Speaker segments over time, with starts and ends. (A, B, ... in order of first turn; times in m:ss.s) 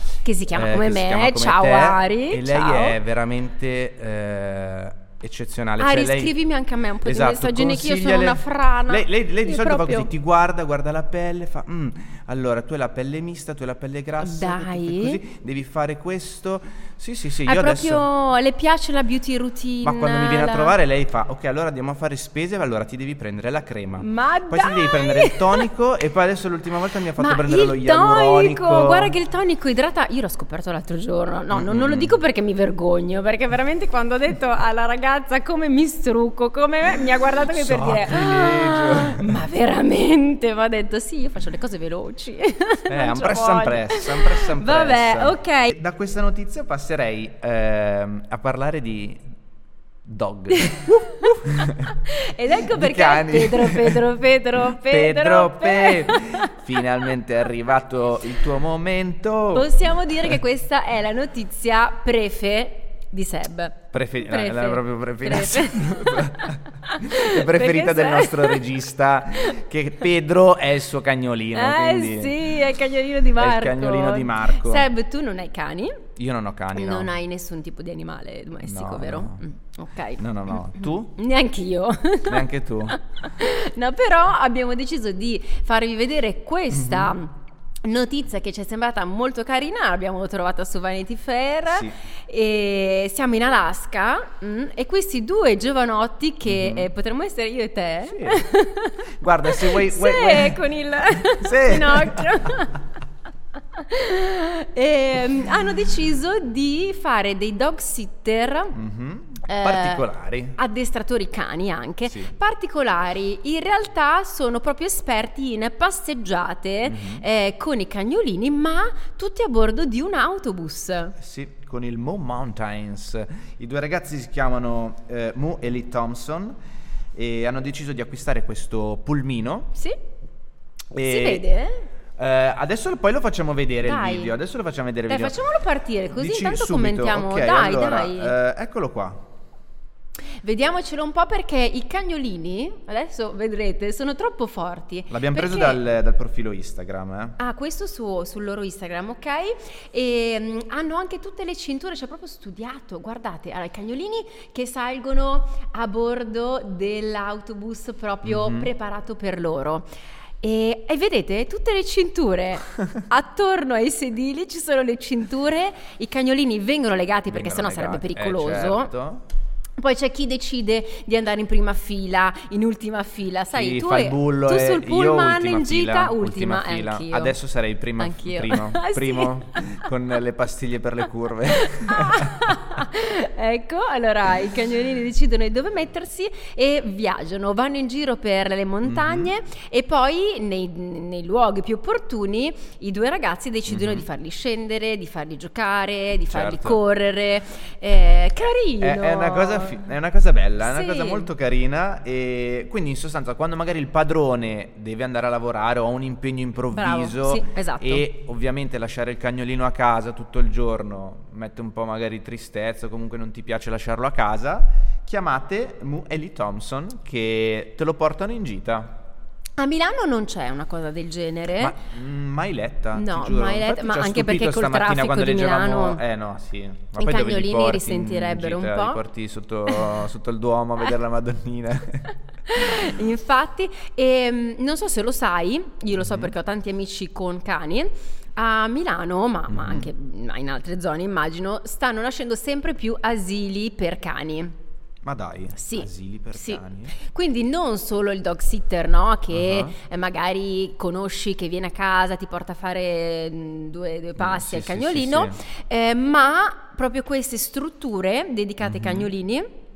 0:00.2-0:03.0 A
0:00.5-0:06.3 B
0:05.8-0:10.1 A
0:07.0-0:18.1 B
0:14.2-0:15.2 A
0:17.5-0:20.8 A
0:19.8-0:29.1 B
0:24.0-0:25.7 A
0:27.2-0:45.7 A
0:31.5-0:32.2 B
0:37.5-0:39.4 B
0:42.9-0:49.2 B
0:50.0-0:51.9 B
0:50.6-0:56.8 A
0:52.6-0:54.1 B
0:54.6-1:00.4 B
0:59.5-1:08.6 A
1:03.9-1:12.6 B
1:11.5-1:16.0 A
1:13.4-1:14.9 B
1:16.2-1:17.1 B
1:16.7-1:42.8 A
1:18.6-1:19.4 B
1:20.2-1:21.2 B
1:22.3-1:23.0 B
1:26.7-1:27.2 B
1:31.7-1:32.0 B
1:36.5-1:36.9 B
1:38.1-1:38.4 B
1:39.2-1:40.6 B
1:41.2-1:42.5 B
1:43.7-1:48.8 A
1:48.8-1:50.6 B
1:49.4-1:50.0 A
1:50.6-2:01.2 A
1:52.1-1:52.3 B
1:56.8-1:57.2 B
2:01.2-2:06.6 B
2:07.2-2:09.7 B
2:10.9-2:11.4 B
2:11.0-2:11.8 A
2:12.2-2:15.4 B
2:13.8-2:14.3 A
2:15.1-2:18.3 A
2:16.1-2:19.2 B
2:20.4-2:25.8 A
2:25.1-2:27.4 B
2:27.4-2:39.9 A
2:38.2-2:38.7 B
2:40.4-2:48.9 A
2:47.3-2:49.2 B
2:49.8-2:57.4 A
2:53.5-3:02.5 B
2:58.0-2:59.9 A
3:01.6-3:19.8 A
3:08.8-3:09.3 B
3:13.7-3:14.1 B
3:16.3-3:16.8 B
3:18.8-3:39.0 B
3:20.6-3:21.3 A
3:26.7-3:28.0 A
3:39.6-3:41.8 A
3:41.6-3:52.8 B
3:43.0-3:46.0 A
3:47.0-3:49.0 A
3:52.5-4:04.5 A
3:56.0-3:56.3 B
3:59.5-3:59.9 B
4:05.0-4:07.0 B
4:05.6-4:19.5 A
4:09.3-4:09.7 B
4:14.2-4:15.4 B
4:18.6-4:19.1 B